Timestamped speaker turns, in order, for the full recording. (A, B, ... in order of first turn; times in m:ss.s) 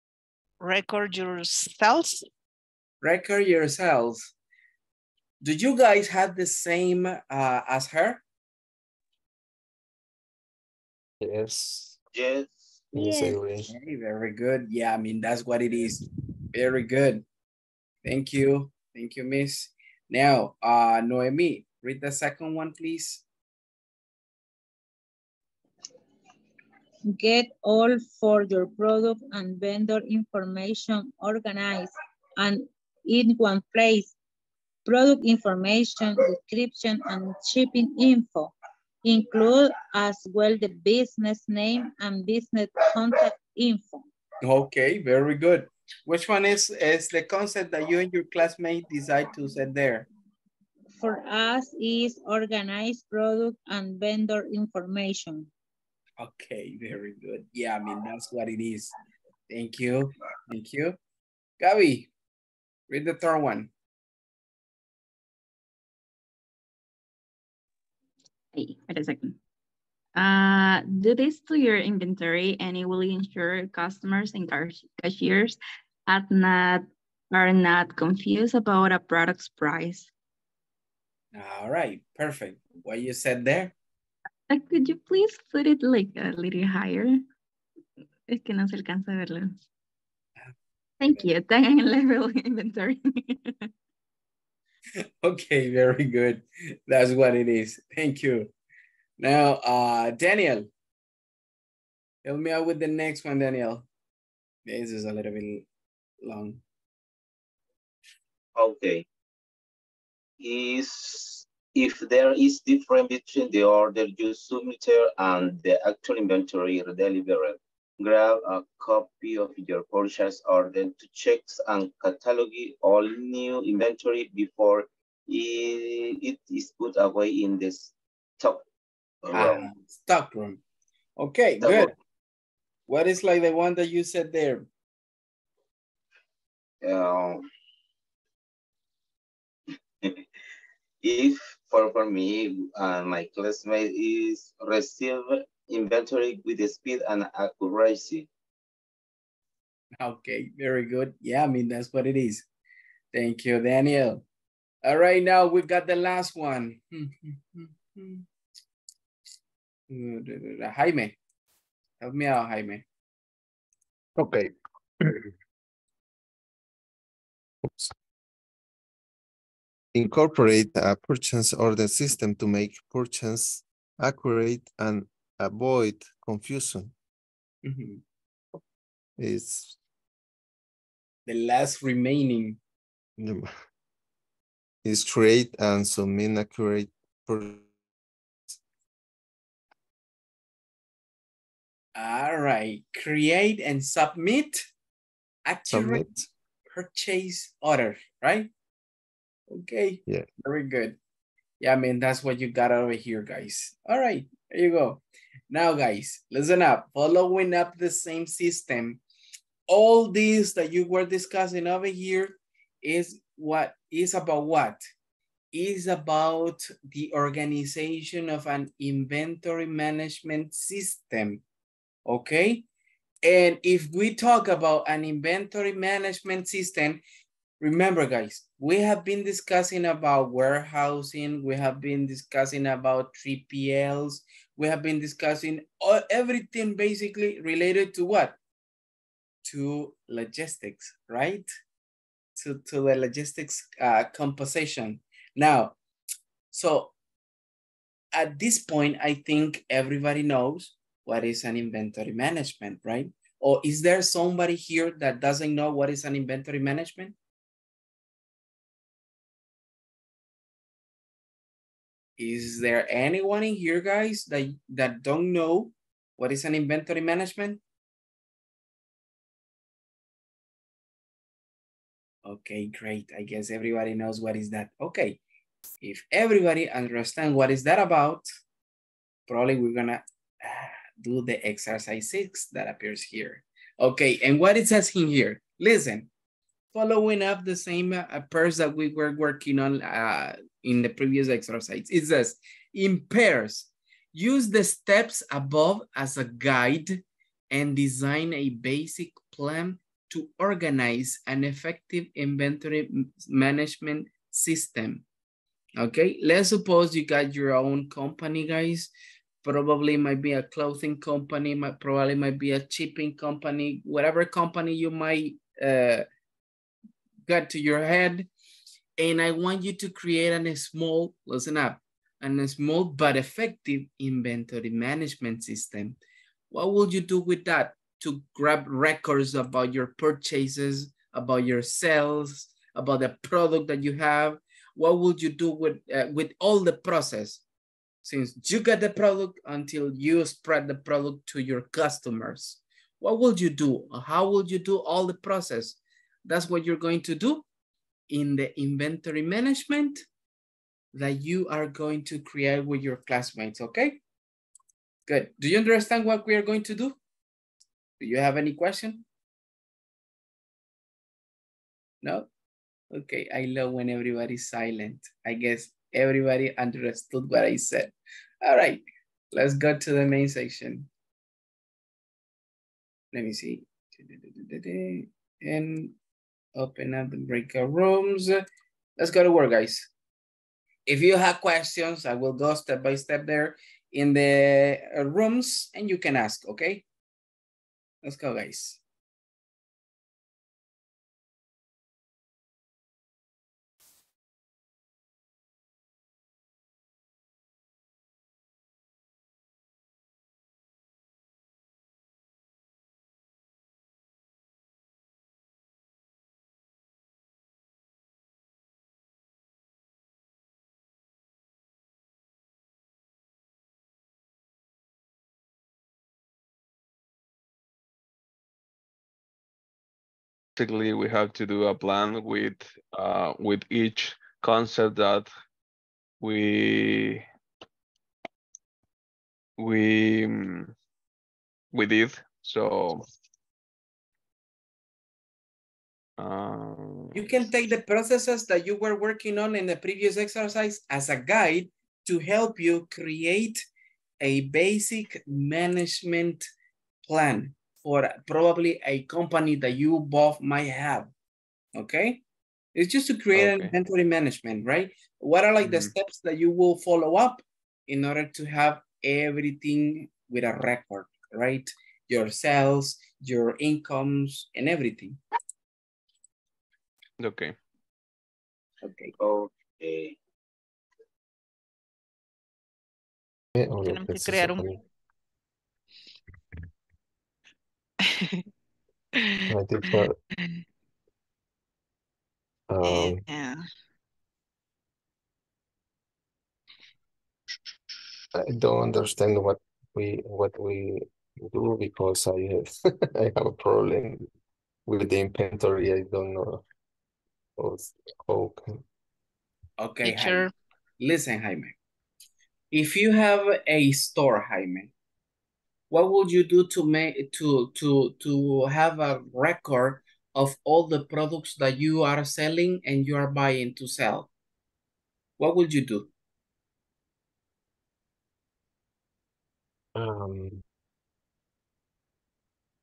0:00.6-0:02.2 A
0:03.0-0:04.3 B
0:05.4-0:08.2 B
0:11.2-0:12.0 C
0:12.1-0:12.9 D
0:12.9-0:13.7 C
0:13.6-0:17.2 B
0:18.0-0:23.2 B
0:27.1-0:34.1 E
0:34.8-0:44.0 E
0:44.4-0:50.1 B
0:51.0-0:55.5 E
0:56.2-0:58.9 B
0:59.5-1:01.0 B
1:01.6-1:02.1 B
1:02.9-1:03.7 B
1:08.5-1:09.4 F
1:10.2-1:20.1 F
1:21.3-1:23.7 B
1:24.5-1:27.2 F
1:28.3-1:29.6 F
1:31.0-1:33.7 F
1:35.2-1:38.5 B
1:39.2-1:40.7 B
1:42.2-1:43.8 B
1:44.6-1:45.6 B
1:46.2-1:46.6 B
1:48.6-1:49.0 D
1:50.4-2:08.6 D
2:09.2-2:09.7 D
2:09.3-2:10.6 B
2:11.2-2:11.9 B
2:11.6-2:11.9 D
2:12.9-2:14.6 B
2:16.8-2:17.4 D
2:21.0-2:28.3 D
2:30.0-2:32.4 B
2:33.1-2:34.2 B
2:34.8-2:38.2 B
2:39.9-2:41.1 B
2:42.0-2:42.8 B
2:44.2-2:45.3 C
2:49.9-2:56.9 C
2:57.6-2:58.0 B
2:59.2-2:59.8 C
3:01.2-3:02.6 B
3:03.2-3:03.5 C
3:04.8-3:07.7 C
3:12.0-3:14.6 B
3:15.4-3:18.5 B
3:15.7-3:16.1 C
3:19.5-3:21.0 B
3:21.6-3:29.0 B
3:29.7-3:34.8 B
3:35.5-3:41.4 B
3:42.0-3:42.6 B
3:43.2-3:47.0 B
3:47.6-3:58.4 B
3:59.4-4:01.4 B
4:02.4-4:05.7 B
4:06.5-4:06.9 B
4:08.1-4:17.1 B
4:22.2-4:27.6 B
4:32.2-4:35.2 B
4:35.8-4:38.2 B
4:39.3-4:46.1 B
4:46.7-5:05.0 B
5:05.8-5:08.9 B
5:09.4-5:16.0 B
5:17.3-5:18.3 B
5:19.0-5:26.0 B
5:26.5-5:37.4 B
5:38.0-5:47.4 B
5:48.1-5:50.0 B
5:50.9-5:54.0 B
5:55.1-5:57.0 B
5:58.0-5:59.0 B
6:02.0-6:02.3 B
6:02.9-6:10.9 B
6:13.1-6:15.9 B
6:16.6-6:18.4 B
6:19.0-6:19.9 B
6:20.8-6:26.8 B
6:28.0-6:28.8 B
7:00.6-7:05.3 G
7:06.2-7:07.2 G
7:09.6-7:10.7 G
7:11.7-7:13.0 G
7:16.2-7:17.3 G
7:17.1-7:23.6 B
7:24.2-7:26.5 B
7:27.0-7:31.1 B
7:31.8-7:32.2 B
7:32.7-7:45.2 B
7:33.3-7:33.7 G
7:47.2-7:47.5 G
7:48.8-7:49.1 B
7:49.2-7:50.2 D
7:53.6-7:54.8 C
7:53.8-7:54.7 A
7:58.1-7:58.4 A
7:59.2-8:00.6 A
7:59.5-8:00.2 C
8:02.7-8:03.2 C
8:02.8-8:03.6 A
8:08.3-8:14.2 C
8:14.8-8:16.6 C
8:17.6-8:18.8 C
8:19.8-8:21.8 B
8:20.0-8:20.5 A
8:22.7-8:24.9 B
8:25.9-8:34.3 B
8:35.4-8:36.1 B
8:39.9-8:40.6 C